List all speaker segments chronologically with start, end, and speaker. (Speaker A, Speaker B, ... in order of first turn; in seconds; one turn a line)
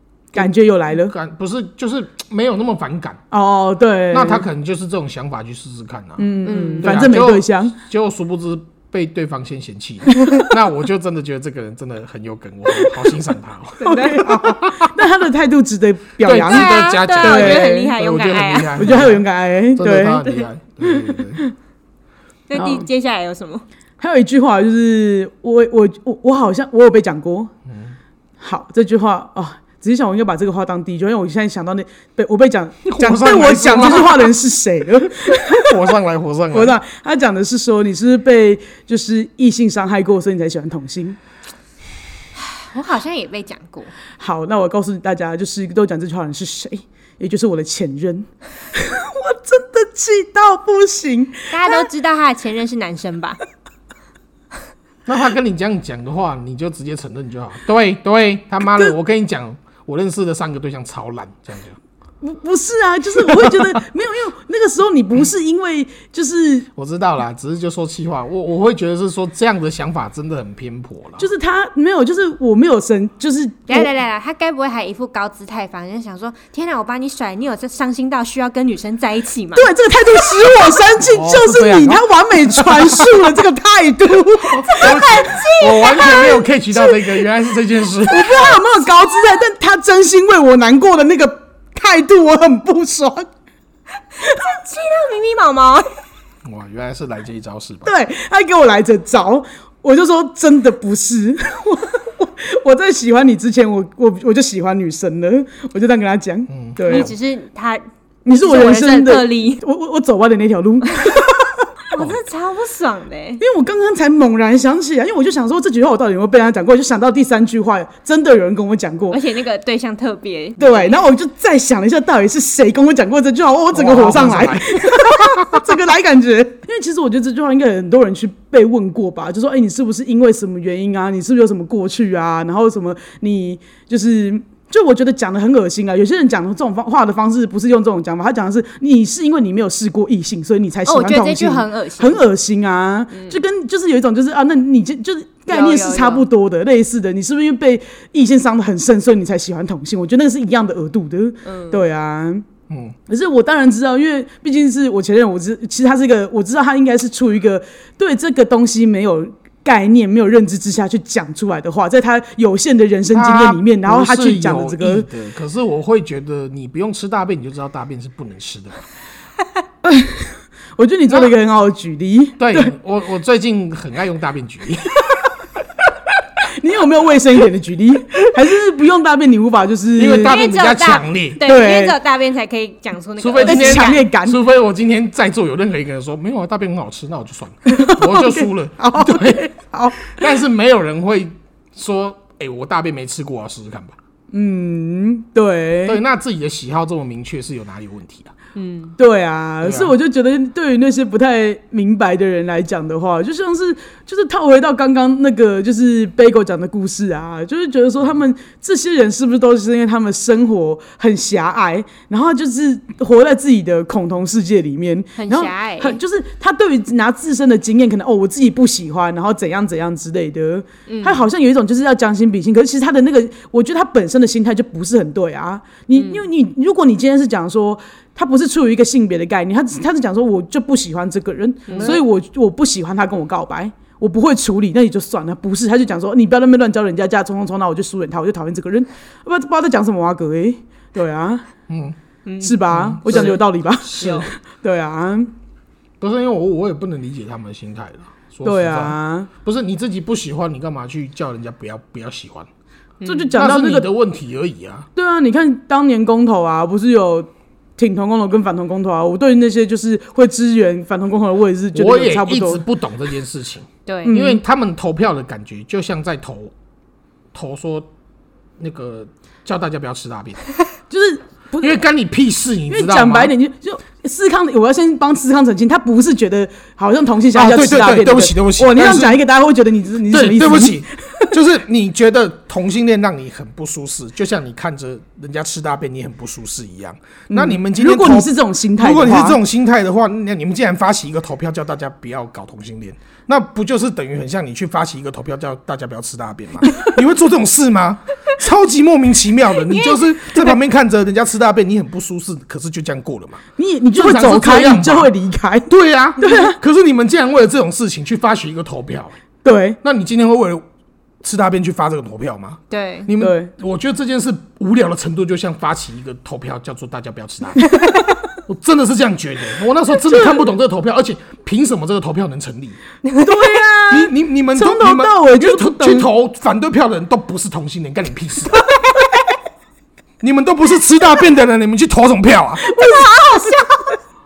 Speaker A: 0.3-1.1
Speaker B: 0.4-3.2
Speaker A: 3.3-4.5
Speaker B: 4.1-14.9
Speaker A: 6.2-7.8
Speaker C: 6.5-7.0
Speaker C: 13.8-14.3
Speaker A: 13.8-17.9
Speaker B: 16.2-21.4
Speaker C: 16.4-18.9
Speaker A: 18.8-21.5
Speaker C: 22.5-23.6
Speaker A: 22.6-22.9
Speaker A: 24.0-27.5
Speaker B: 27.7-28.0
Speaker A: 28.4-36.0
Speaker B: 32.9-34.3
Speaker B: 35.3-36.8
Speaker A: 36.5-41.2
Speaker C: 42.4-43.9
Speaker A: 44.2-51.9
Speaker C: 51.5-53.4
Speaker B: 55.1-61.8
Speaker A: 58.6-59.0
Speaker A: 62.2-66.7
Speaker B: 63.2-63.8
Speaker B: 66.8-71.3
Speaker A: 71.2-73.9
Speaker C: 73.7-79.7
Speaker A: 79.6-85.2
Speaker B: 81.0-83.3
Speaker B: 84.5-88.6
Speaker C: 84.7-86.4
Speaker A: 88.1-93.3
Speaker C: 94.2-95.9
Speaker B: 96.4-97.9
Speaker A: 97.9-107.1
Speaker B: 106.5-107.1
Speaker C: 106.9-109.6
Speaker A: 108.2-111.4
Speaker C: 110.9-111.3
Speaker C: 111.9-113.4
Speaker A: 113.4-119.2
Speaker C: 119.1-121.0
Speaker A: 120.6-152.5
Speaker B: 123.7-125.7
Speaker C: 140.9-142.2
Speaker C: 143.1-143.4
Speaker C: 145.5-146.3
Speaker C: 151.4-151.8
Speaker B: 152.7-153.0
Speaker A: 153.1-165.1
Speaker B: 163.1-168.8
Speaker A: 169.8-172.7
Speaker B: 172.4-175.2
Speaker A: 176.6-180.3
Speaker B: 180.0-181.4
Speaker C: 180.2-184.0
Speaker A: 181.4-182.0
Speaker B: 183.2-189.5
Speaker A: 183.4-184.4
Speaker A: 187.7-190.4
Speaker B: 190.1-194.0
Speaker A: 194.3-196.0
Speaker B: 195.8-198.3
Speaker C: 198.6-198.9
Speaker A: 199.0-241.5
Speaker B: 199.6-200.0
Speaker C: 215.2-216.0
Speaker C: 220.9-221.3
Speaker C: 225.9-226.2
Speaker C: 231.7-232.0
Speaker B: 231.7-232.0
Speaker B: 241.7-242.0
Speaker C: 242.2-243.4
Speaker A: 242.4-245.3
Speaker B: 242.7-244.2
Speaker C: 243.9-244.3
Speaker B: 246.0-252.5
Speaker A: 248.4-249.3
Speaker C: 253.0-253.3
Speaker A: 253.1-253.9
Speaker B: 253.3-254.9
Speaker A: 255.0-262.6
Speaker B: 261.7-266.5
Speaker C: 263.9-264.1
Speaker A: 264.1-264.4
Speaker B: 267.3-267.9
Speaker B: 268.6-270.4
Speaker A: 270.9-271.8
Speaker B: 271.6-273.3
Speaker A: 272.7-281.3
Speaker B: 277.3-279.2
Speaker B: 280.1-303.4
Speaker A: 287.3-289.4
Speaker C: 299.7-300.0
Speaker A: 303.6-306.6
Speaker B: 303.9-305.1
Speaker B: 305.7-309.2
Speaker A: 309.4-309.8
Speaker B: 309.8-310.6
Speaker B: 311.2-317.7
Speaker C: 312.7-313.1
Speaker A: 313.2-313.5
Speaker B: 318.5-322.8
Speaker A: 320.1-320.4
Speaker C: 323.1-323.6
Speaker A: 323.2-326.1
Speaker B: 323.9-328.7
Speaker B: 330.2-332.7
Speaker A: 332.6-333.6
Speaker C: 332.9-333.8